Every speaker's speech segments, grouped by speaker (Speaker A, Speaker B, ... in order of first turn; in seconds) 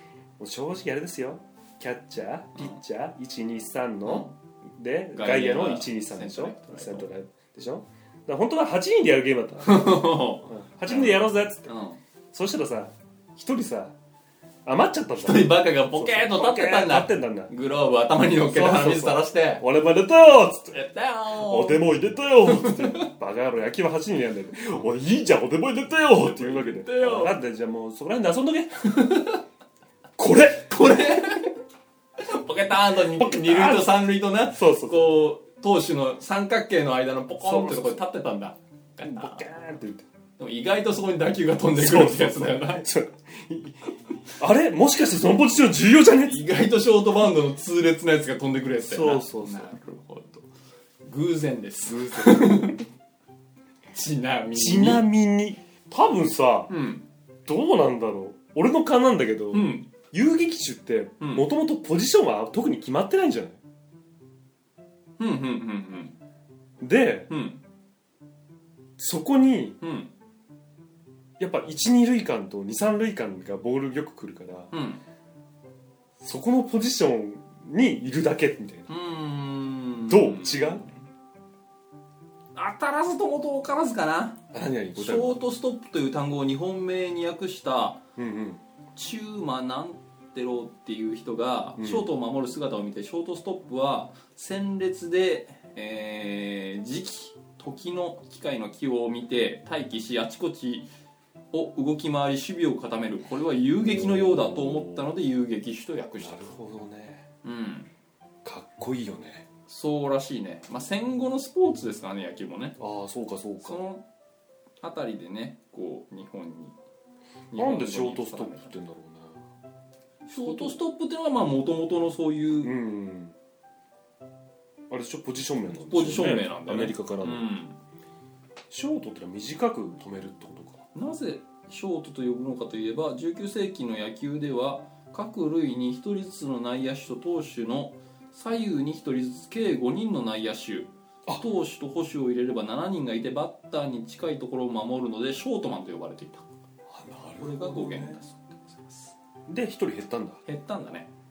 Speaker A: 0.4-11.7, 12.3-13.9, 14.6-17.5, 18.4-20.8, 21.3-28.9, 30.2-30.9, 33.1-35.1, 37.4-38.0, 39.0-40.0, 41.8-46.4, 48.8-49.7, 51.8-52.8, 54.5-56.7, 57.5-63.6, 66.8-67.3, 69.0-69.8, 71.4-74.7, 76.2-78.9, 80.1-80.8, 84.5-85.4, 88.2-88.6, 91.8-92.0, 103.8-105.1, 106.2-107.2, 108.4-109.4, 112.8-113.8, 117.5-119.4, 120.3-120.8, 122.6-123.3, 124.9-127.5, 128.7-130.8, 146.9-148.2, 149.5-150.4
Speaker B: 4.0-4.3, 5.1-7.1, 9.6-12.0, 15.2-19.6, 20.7-21.9, 22.4-23.1, 26.2-27.4, 28.9-29.4, 30.6-31.6, 32.2-39.5, 40.4-42.9, 46.2-50.4, 51.0-52.8, 53.9-55.0, 56.7-57.0, 59.5-59.9, 61.2-61.5, 65.2-66.2, 67.3-67.6, 69.8-70.1, 74.7-75.0, 78.9-81.0, 82.5-84.4, 84.9-88.0, 88.9-100.9, 101.5-106.5, 107.4-107.9, 109.7-112.8, 113.6-114.0, 114.8-116.7, 117.5-118.7, 120.3-122.7, 125.7-127.8, 130.9-146.5, 147.4-149.1, 150.4-151.1